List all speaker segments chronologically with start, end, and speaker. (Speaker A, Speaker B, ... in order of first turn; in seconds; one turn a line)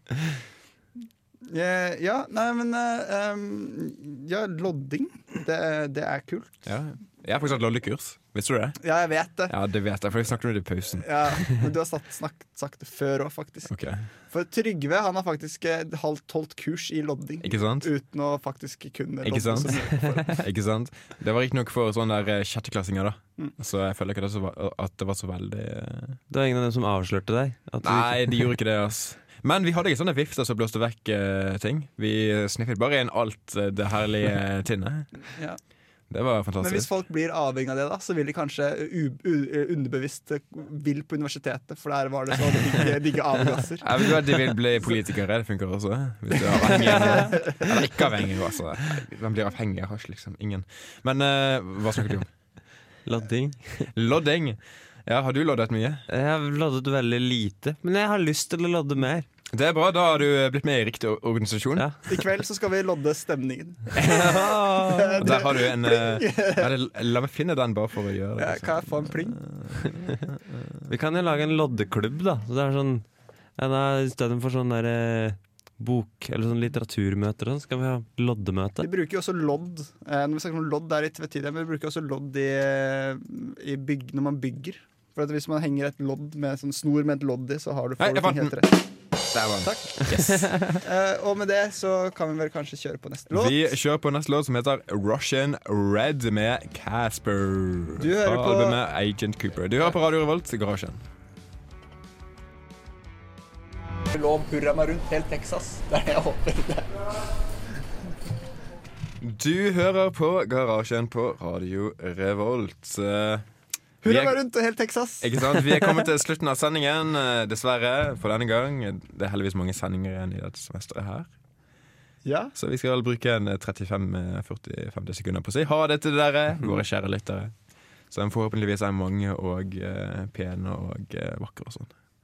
Speaker A: 1.5-6.7
Speaker B: 6.7-8.8
Speaker A: 8.8-9.6
Speaker B: 9.5-11.4
Speaker A: 10.9-13.7
Speaker B: 13.7-14.1
Speaker A: 14.3-20.4
Speaker B: 17.4-17.9
Speaker B: 19.2-26.2
Speaker C: 26.3-28.5
Speaker B: 27.8-35.1
Speaker B: 36.1-36.9
Speaker A: 36.6-44.1
Speaker B: 43.8-52.3
Speaker A: 46.3-47.7
Speaker C: 46.7-47.3
Speaker C: 53.0-53.9
Speaker B: 53.9-56.0
Speaker C: 56.1-59.2
Speaker B: 59.5-61.9
Speaker A: 62.0-66.7
Speaker B: 64.0-64.3
Speaker C: 64.1-65.2
Speaker B: 65.2-70.8
Speaker A: 68.4-69.4
Speaker C: 70.9-78.9
Speaker A: 78.8-88.9
Speaker B: 88.0-88.6
Speaker B: 89.3-90.8
Speaker A: 89.6-90.0
Speaker A: 90.7-93.8
Speaker B: 93.3-101.0
Speaker A: 98.0-98.8
Speaker A: 104.1-107.0
Speaker B: 109.2-113.5
Speaker B: 114.0-114.4
Speaker A: 114.0-116.0
Speaker B: 115.2-121.3
Speaker A: 122.2-122.5
Speaker B: 122.5-127.5
Speaker B: 128.1-131.9